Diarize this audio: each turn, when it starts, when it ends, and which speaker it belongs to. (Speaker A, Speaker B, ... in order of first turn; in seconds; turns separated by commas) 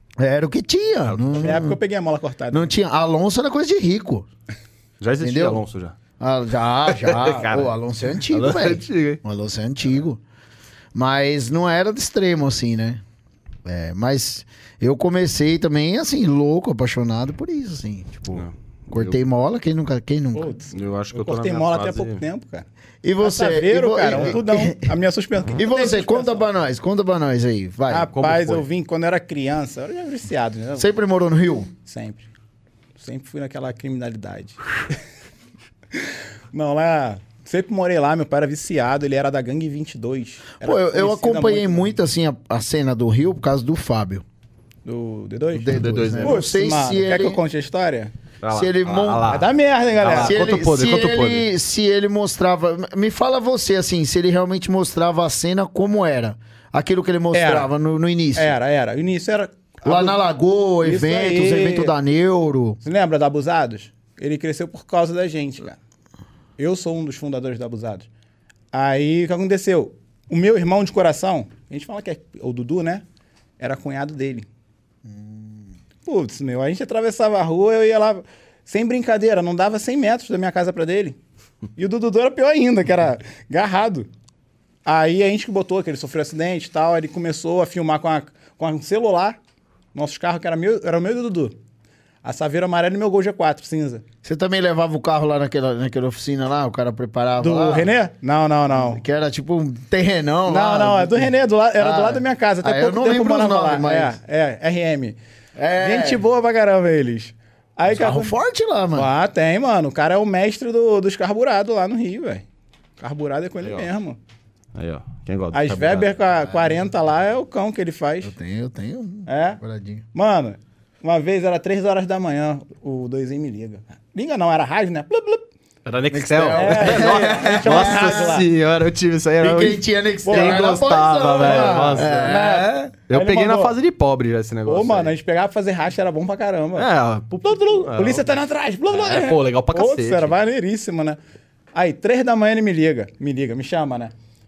Speaker A: 0.2-1.8, Speaker B: 1.1-1.6, Speaker C: 1.4-2.7, Speaker A: 2.5-4.2, Speaker B: 5.0-5.9, Speaker A: 5.2-5.6, Speaker A: 6.2-10.2, Speaker B: 6.9-7.7, Speaker C: 7.3-7.6, Speaker B: 8.2-9.2, Speaker A: 10.9-13.0, Speaker A: 13.7-20.5, Speaker B: 18.3-19.2, Speaker C: 20.3-22.6, Speaker B: 20.7-22.2, Speaker A: 23.0-24.9, Speaker C: 23.2-26.4, Speaker B: 24.1-24.4, Speaker A: 25.6-28.1, Speaker C: 27.9-30.9, Speaker B: 28.1-28.6, Speaker A: 30.8-31.7, Speaker C: 31.8-32.2, Speaker C: 33.0-34.7, Speaker C: 35.9-41.9, Speaker A: 40.6-44.2, Speaker C: 44.8-48.1, Speaker A: 45.5-47.4, Speaker B: 45.7-46.4, Speaker B: 48.4-51.5, Speaker A: 48.5-49.3, Speaker C: 49.3-50.4, Speaker A: 50.1-58.5, Speaker C: 57.3-57.7, Speaker C: 58.3-60.2, Speaker A: 59.8-62.8, Speaker C: 60.8-61.9, Speaker C: 62.8-65.8, Speaker C: 66.6-68.1, Speaker C: 68.7-73.0, Speaker C: 73.6-74.5, Speaker A: 75.1-75.5, Speaker C: 76.0-81.2, Speaker C: 81.8-84.1, Speaker C: 84.8-89.4, Speaker C: 89.9-91.5, Speaker C: 92.2-94.0, Speaker A: 94.2-97.9, Speaker C: 97.4-99.0, Speaker A: 98.7-104.1, Speaker C: 100.5-105.2, Speaker A: 105.6-106.2, Speaker C: 105.8-108.3, Speaker A: 107.9-109.1, Speaker C: 108.9-112.4, Speaker C: 113.0-114.2, Speaker B: 113.6-113.9, Speaker B: 114.7-116.3, Speaker C: 115.5-118.3, Speaker A: 118.2-120.0, Speaker C: 119.3-119.6, Speaker C: 120.1-125.4, Speaker B: 125.8-135.1, Speaker A: 126.1-128.3, Speaker C: 126.1-128.5, Speaker A: 129.4-132.9, Speaker C: 130.2-133.7, Speaker C: 134.7-136.9, Speaker B: 136.7-138.3, Speaker C: 137.4-141.2, Speaker B: 138.9-140.3, Speaker C: 141.7-144.1